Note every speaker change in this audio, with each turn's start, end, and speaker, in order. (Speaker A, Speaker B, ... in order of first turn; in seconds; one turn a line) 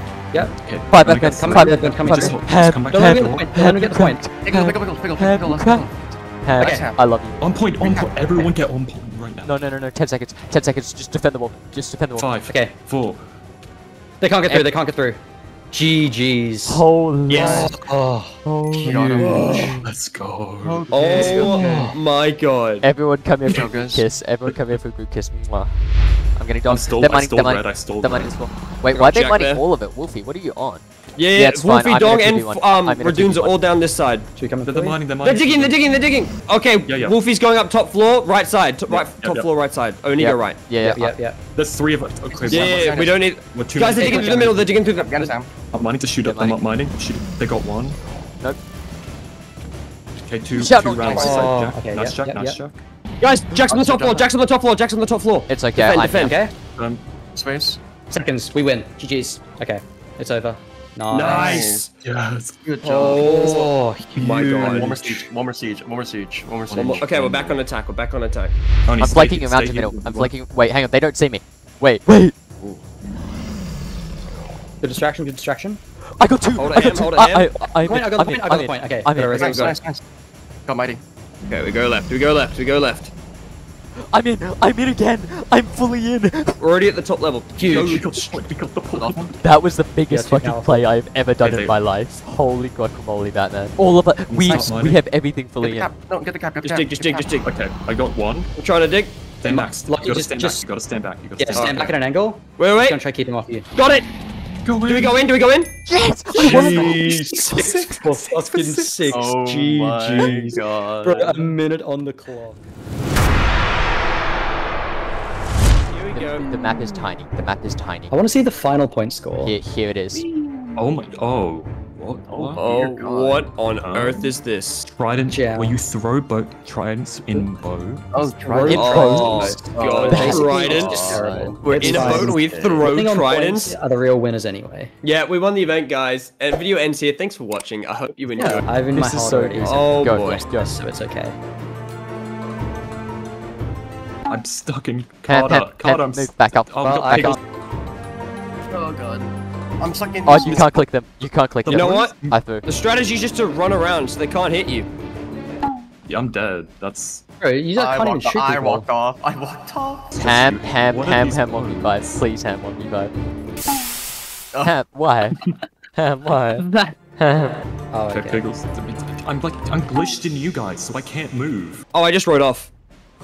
Speaker A: 0.6-3.5
Speaker B: 0.9-5.9
Speaker C: 1.3-4.2
Speaker D: 4.4-7.0
Speaker B: 6.4-7.4
Speaker C: 6.6-6.8
Speaker A: 7.4-9.5
Speaker D: 7.8-8.3
Speaker B: 9.4-12.3
Speaker A: 12.2-13.2
Speaker C: 14.2-15.2
Speaker C: 15.7-19.8
Speaker B: 16.6-17.7
Speaker E: 17.3-17.7
Speaker D: 17.3-17.7
Speaker B: 18.4-19.2
Speaker D: 18.7-19.8
Speaker E: 19.2-19.8
Speaker A: 19.8-20.8
Speaker D: 20.6-21.9
Speaker E: 20.9-22.9
Speaker C: 21.0-22.0
Speaker B: 22.8-25.8
Speaker D: 23.4-24.1
Speaker B: 26.3-30.8
Speaker A: 26.6-28.4
Speaker E: 28.9-29.6
Speaker E: 31.2-34.3
Speaker B: 31.3-33.5
Speaker C: 34.4-35.0
Speaker A: 34.6-35.9
Speaker E: 35.2-40.6
Speaker A: 36.9-37.2
Speaker A: 38.9-39.5
Speaker B: 40.2-41.1
Speaker C: 40.8-41.4
Speaker A: 41.5-43.0
Speaker D: 42.4-43.2
Speaker E: 42.5-45.3
Speaker C: 42.5-43.0
Speaker A: 43.5-44.5
Speaker C: 43.8-44.6
Speaker D: 44.0-45.5
Speaker A: 45.7-48.0
Speaker B: 46.2-46.6
Speaker A: 50.2-52.8
Speaker B: 50.5-51.5
Speaker D: 51.1-51.4
Speaker C: 51.1-52.6
Speaker E: 53.2-56.4
Speaker C: 53.5-54.3
Speaker B: 55.5-56.4
Speaker C: 56.1-56.5
Speaker A: 56.8-57.0
Speaker D: 57.3-57.8
Speaker C: 58.1-61.7
Speaker E: 61.1-61.9
Speaker D: 61.1-61.9
Speaker A: 62.0-62.6
Speaker D: 62.6-63.7
Speaker E: 62.8-64.9
Speaker C: 63.0-65.3
Speaker D: 64.4-67.1
Speaker A: 66.7-67.6
Speaker E: 66.7-68.5
Speaker A: 68.8-70.3
Speaker B: 69.0-72.3
Speaker C: 74.8-75.8
Speaker B: 76.2-79.8
Speaker E: 76.6-77.5
Speaker C: 76.7-79.8
Speaker D: 79.3-80.0
Speaker D: 80.7-81.0
Speaker E: 81.5-83.1
Speaker B: 84.0-86.6
Speaker E: 86.6-88.1
Speaker C: 87.6-88.3
Speaker A: 87.7-89.3
Speaker D: 88.9-89.3
Speaker B: 89.4-95.9
Speaker C: 90.1-90.9
Speaker A: 91.4-91.7
Speaker A: 94.3-95.0
Speaker D: 95.6-97.4
Speaker E: 96.6-97.5
Speaker A: 97.4-98.5
Speaker E: 98.6-99.2
Speaker A: 99.4-101.9
Speaker C: 99.4-100.6
Speaker C: 101.4-103.7
Speaker E: 101.5-101.9
Speaker E: 102.6-103.0
Speaker E: 103.7-104.1
Speaker A: 104.6-105.2
Speaker E: 104.8-105.7
Speaker B: 105.9-107.4
Speaker A: 106.3-109.3
Speaker C: 106.4-112.6
Speaker D: 109.1-111.5
Speaker E: 115.9-116.5
Speaker B: 116.1-118.1
Speaker C: 118.1-119.5
Speaker B: 119.4-120.2
Speaker D: 120.2-120.8
Speaker A: 120.8-122.6
Speaker D: 122.3-123.4
Speaker E: 122.6-124.8
Speaker A: 123.8-124.3
Speaker A: 124.8-128.3
Speaker C: 125.3-125.8
Speaker D: 128.1-132.9
Speaker C: 128.4-134.9
Speaker B: 128.7-129.3
Speaker E: 128.7-133.8
Speaker B: 130.1-130.5
Speaker B: 131.6-132.3
Speaker E: 135.0-138.6
Speaker C: 138.3-141.4
Speaker B: 138.9-140.7
Speaker E: 139.6-140.4
Speaker A: 144.3-147.4
Speaker B: 145.3-147.4
Speaker C: 146.8-147.4
Speaker D: 148.7-150.8
Speaker B: 150.2-152.7
Speaker A: 151.6-152.4
Speaker E: 151.7-152.1
Speaker E: 152.7-154.9
Speaker A: 156.1-157.2
Speaker C: 157.4-158.9
Speaker D: 157.7-160.2
Speaker A: 160.1-162.0
Speaker B: 160.1-163.1
Speaker B: 164.6-165.4
Speaker B: 165.9-166.7
Speaker C: 167.9-168.4
Speaker A: 168.1-171.8
Speaker E: 171.9-172.7